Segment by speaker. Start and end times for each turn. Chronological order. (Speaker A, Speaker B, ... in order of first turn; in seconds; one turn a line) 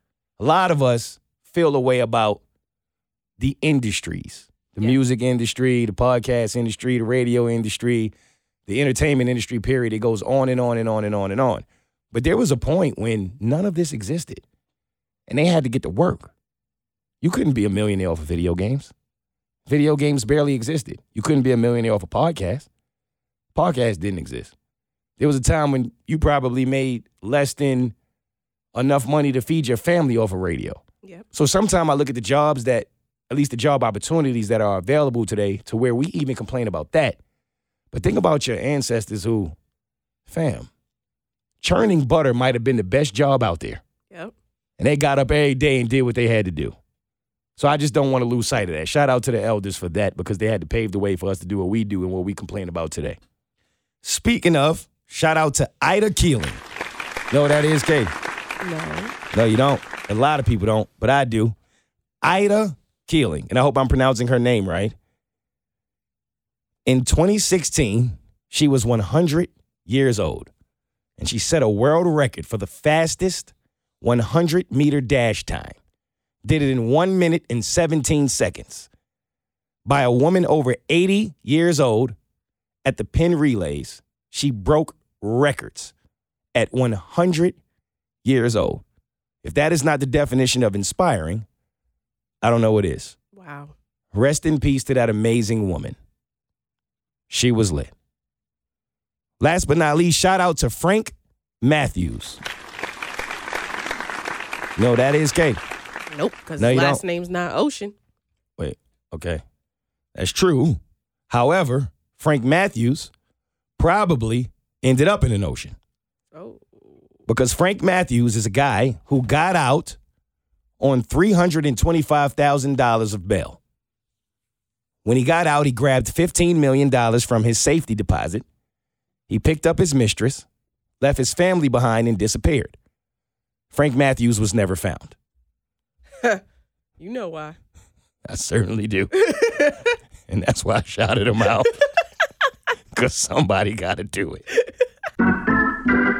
Speaker A: 0.4-2.4
Speaker A: 3.4-8.1
Speaker A: 8.7-14.4
Speaker A: 15.3-16.3
Speaker A: 17.2-18.9
Speaker A: 19.7-22.7
Speaker A: 23.5-24.5
Speaker A: 25.2-27.9
Speaker A: 28.7-30.8
Speaker A: 31.3-37.2
Speaker A: 37.9-39.5
Speaker A: 40.3-40.7
Speaker A: 41.6-43.8
Speaker A: 44.8-46.8
Speaker A: 47.6-53.2
Speaker A: 54.0-56.6
Speaker A: 57.3-58.1
Speaker B: 58.6-59.1
Speaker A: 59.3-61.5
Speaker A: 62.2-64.9
Speaker A: 66.8-70.5
Speaker A: 71.2-75.8
Speaker A: 76.4-78.9
Speaker A: 79.8-82.2
Speaker A: 82.8-85.9
Speaker A: 86.5-87.6
Speaker A: 88.2-88.8
Speaker A: 89.4-91.5
Speaker A: 92.4-93.2
Speaker B: 93.3-93.7
Speaker A: 94.1-96.0
Speaker A: 97.3-97.9
Speaker A: 99.4-102.4
Speaker A: 104.8-105.6
Speaker B: 106.1-107.9
Speaker A: 106.6-107.0
Speaker A: 108.6-109.4
Speaker A: 110.1-113.1
Speaker A: 113.8-115.7
Speaker B: 116.3-116.9
Speaker A: 117.3-120.0
Speaker A: 120.8-123.6
Speaker A: 125.0-128.4
Speaker A: 129.3-130.4
Speaker A: 131.0-132.8
Speaker A: 133.7-135.2
Speaker B: 137.0-137.6
Speaker A: 138.3-139.1
Speaker B: 139.2-139.9
Speaker A: 140.3-141.7
Speaker A: 142.9-144.4